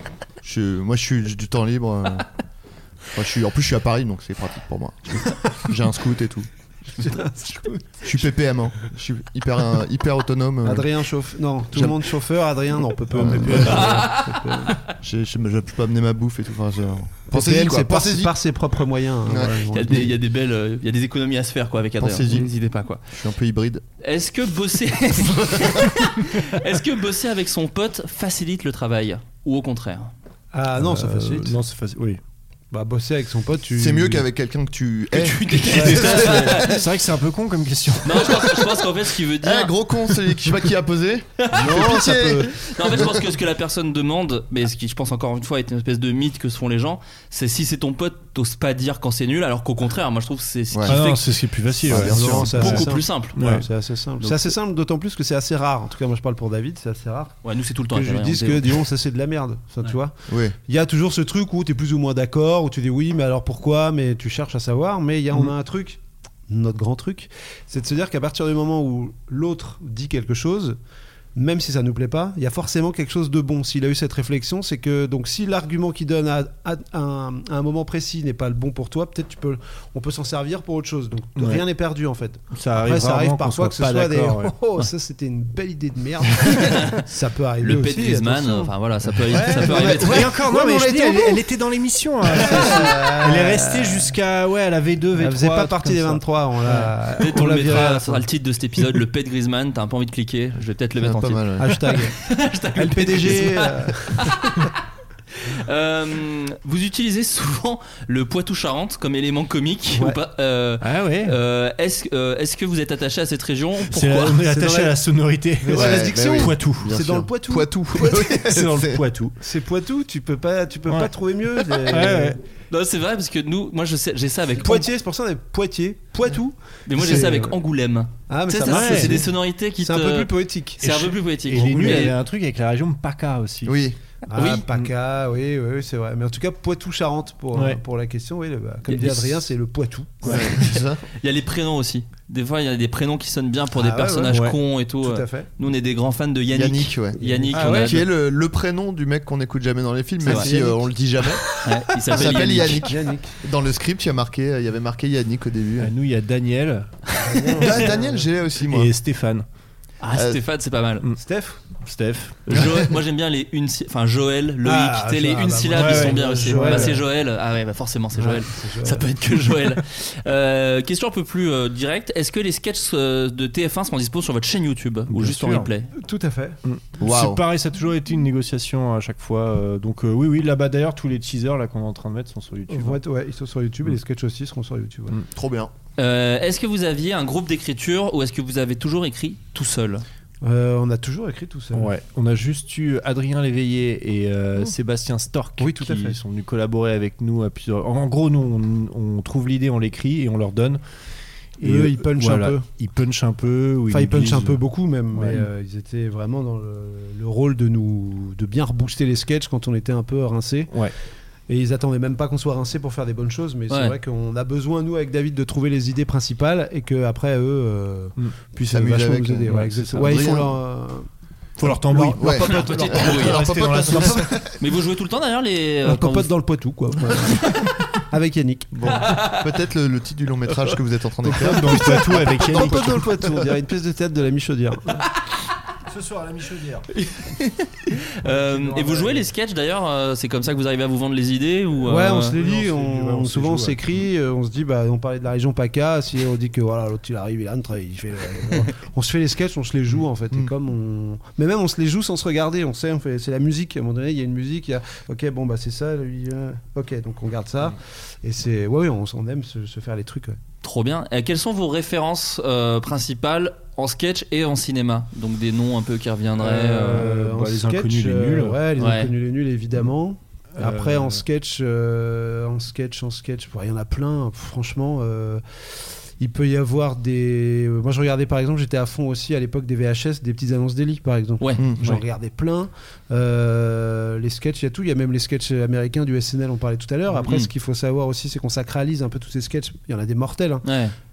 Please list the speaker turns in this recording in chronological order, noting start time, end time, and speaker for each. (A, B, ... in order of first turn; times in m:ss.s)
0:00.4-0:02.2 A
0:03.1-0:06.5 A
0:07.0-0:08.0 B
0:08.0-0:10.9 A
0:10.6-0:14.8 B
0:11.7-0:12.1 A
0:13.1-0:14.1 A
0:13.4-0:13.9 C
0:13.7-0:14.5 D
0:15.0-0:18.3 A
0:17.3-0:20.1 B
0:19.3-0:19.6 A
0:19.7-0:23.0 D
0:22.0-0:22.5 A
0:23.1-0:23.8 A
0:24.0-0:30.1 D
0:25.3-0:25.9 A
0:30.5-0:31.6 B
0:30.7-0:32.2 C
0:32.7-0:34.2 B
0:33.8-0:36.7 A
0:35.1-0:36.8 D
0:35.7-0:38.5 C
0:38.0-0:39.7 D
0:39.4-0:43.1 A
0:41.4-0:41.9 D
0:41.5-0:42.6 B
0:42.6-0:51.3 D
0:50.7-0:51.0 A
0:50.9-0:53.7 C
0:51.8-0:52.7 A
0:51.9-0:57.4 B
0:52.4-0:53.4 D
0:54.2-0:54.5 D
0:57.4-0:58.8 D
0:57.9-1:10.8 B
1:00.3-1:00.5 A
1:11.3-1:28.7 B
1:21.4-1:21.6 C
1:22.5-1:24.5 C
1:26.4-1:27.0 D
1:27.6-1:30.3 D
1:29.3-1:31.4 B
1:29.4-1:36.9 C
1:32.3-1:34.1 B
1:35.2-1:38.2 B
1:37.2-1:44.7 D
1:41.0-1:41.7 A
1:41.6-1:42.2 B
1:42.8-1:44.7 B
1:45.4-1:54.4 D
1:50.8-1:51.4 C
1:53.9-1:57.0 C
1:54.4-1:55.0 B
1:55.6-1:58.3 B
1:55.7-1:59.0 A
1:58.1-1:59.4 C
1:59.4-2:02.4 B
2:00.9-2:01.1 C
2:01.6-2:02.4 C
2:02.7-2:04.9 D
2:04.6-2:07.6 B
2:06.9-2:12.1 D
2:08.3-2:10.9 B
2:08.6-2:09.2 C
2:10.8-2:13.8 C
2:11.5-2:12.1 B
2:13.6-2:14.0 A
2:14.3-2:20.5 B
2:14.3-2:14.6 D
2:17.5-2:17.8 C
2:18.9-2:19.4 D
2:20.2-2:20.5 C
2:20.2-2:21.0 A
2:20.7-2:28.0 D
2:23.7-2:24.4 B
2:24.3-2:24.6 C
2:25.0-2:25.5 B
2:26.5-2:35.9 A
2:27.2-2:28.0 B
2:27.5-2:27.9 C
2:30.2-2:31.4 B
2:30.2-2:30.5 D
2:31.6-2:32.9 D
2:32.5-2:33.4 B
2:35.8-2:37.6 C
2:37.2-2:38.3 B
2:37.6-2:38.9 A
2:38.7-2:39.4 C
2:40.0-2:41.0 D
2:40.1-2:40.4 A
2:41.2-2:41.6 B
2:41.8-2:42.7 C
2:42.5-2:55.9 D
2:44.6-2:47.0 B
2:45.7-2:47.0 C
2:48.2-2:49.1 B
2:55.1-2:55.7 C
2:55.9-2:56.6 B
2:56.6-3:03.0 C
2:57.0-2:57.4 A
3:02.7-3:05.2 B
3:05.3-3:05.7 A
3:06.0-3:10.0 D
3:10.4-3:11.9 B
3:11.7-3:20.8 C
3:15.6-3:16.2 B
3:21.6-3:24.6 C
3:21.6-3:22.6 B
3:23.9-3:30.7 B
3:25.1-3:25.5 C
3:31.5-3:41.1 B
3:33.7-3:33.9 D
3:38.7-3:40.5 A
3:39.5-3:40.4 C
3:41.6-3:44.5 C
3:41.6-3:44.2 B
3:42.2-3:44.5 A
3:42.4-3:43.5 D
3:44.6-3:46.3 D
3:45.8-3:49.0 B
3:48.8-3:53.0 A
3:49.0-3:49.4 D
3:51.2-3:53.2 C
3:51.5-3:55.1 B
3:55.8-3:56.9 C
3:57.2-4:02.3 D
3:58.2-3:59.2 C
4:01.8-4:20.4 B
4:01.9-4:04.1 C
4:20.6-4:27.0 D
4:26.4-4:28.6 C
4:26.4-4:50.6 B
4:28.8-4:29.1 D
4:30.6-4:31.2 C
4:41.6-4:41.8 A
4:50.6-4:50.9 D